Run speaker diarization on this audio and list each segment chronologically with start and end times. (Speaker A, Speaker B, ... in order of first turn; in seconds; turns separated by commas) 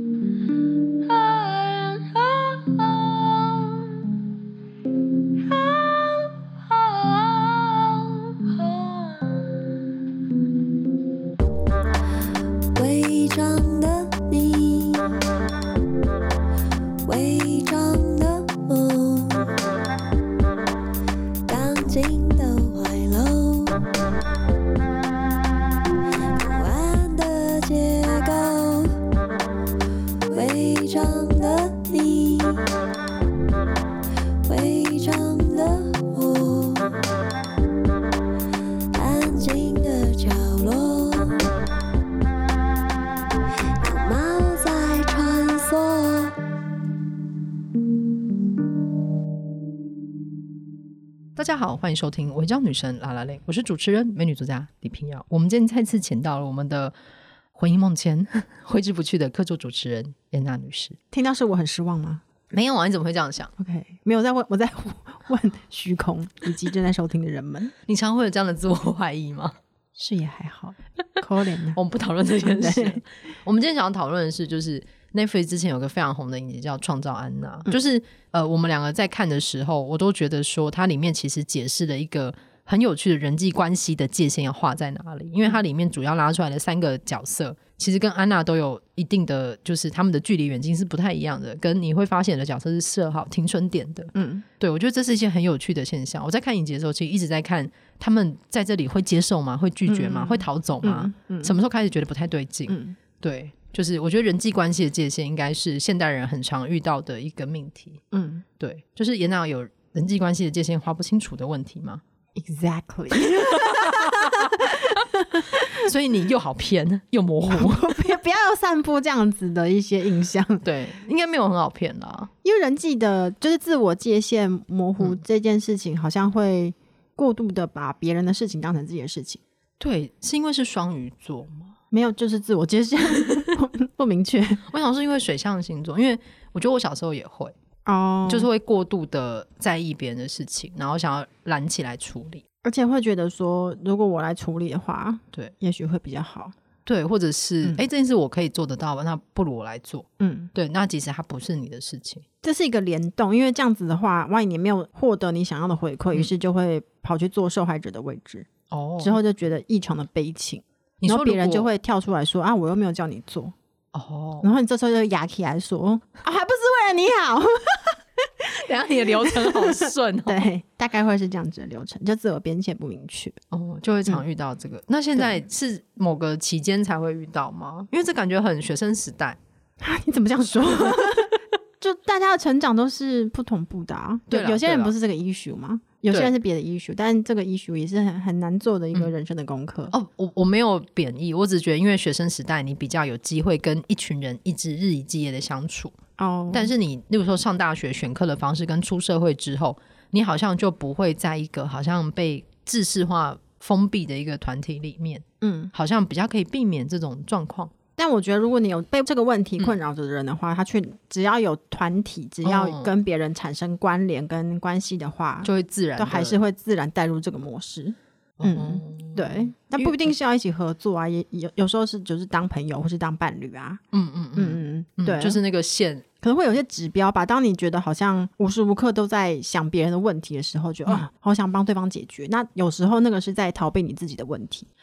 Speaker A: 0.9-4.0, Speaker A: 5.4-9.7, Speaker A: 12.7-15.2, Speaker A: 17.0-19.5, Speaker A: 21.5-23.9, Speaker A: 26.4-29.0, Speaker A: 30.3-32.7, Speaker A: 34.4-37.0, Speaker A: 38.9-41.4, Speaker A: 43.8-46.4, Speaker B: 51.4-56.9, Speaker B: 57.5-61.0, Speaker C: 61.1-62.2, Speaker B: 62.5-63.5, Speaker C: 63.6-67.7, Speaker B: 67.9-69.5, Speaker C: 70.0-71.8, Speaker B: 71.7-108.0, Speaker C: 72.4-73.0, Speaker C: 94.1-94.5, Speaker C: 99.9-101.5, Speaker C: 102.7-103.0, Speaker C: 108.1-108.4, Speaker B: 108.6-112.0, Speaker C: 112.3-115.9, Speaker B: 113.2-115.0, Speaker B: 115.5-118.0, Speaker C: 117.5-120.6, Speaker B: 120.6-122.3, Speaker C: 122.4-129.4, Speaker B: 129.8-131.7, Speaker C: 131.9-134.6, Speaker B: 134.7-137.5, Speaker C: 137.8-138.5, Speaker B: 138.3-142.4, Speaker C: 142.6-146.5, Speaker B: 146.8-152.2, Speaker C: 150.2-150.5, Speaker C: 152.4-158.5, Speaker B: 158.7-159.2, Speaker C: 159.0-163.5, Speaker B: 161.0-161.7, Speaker B: 163.9-164.5, Speaker C: 164.4-173.4, Speaker B: 168.4-170.4, Speaker B: 173.5-179.4, Speaker C: 179.8-189.9, Speaker B: 184.3-184.9, Speaker B: 189.9-196.0, Speaker C: 196.2-196.7, Speaker B: 196.5-207.7, Speaker C: 205.4-205.7, Speaker C: 208.0-223.8, Speaker B: 212.4-212.9, Speaker B: 215.4-216.4, Speaker B: 218.4-220.1, Speaker B: 223.9-226.0, Speaker C: 224.3-225.4, Speaker C: 226.2-234.7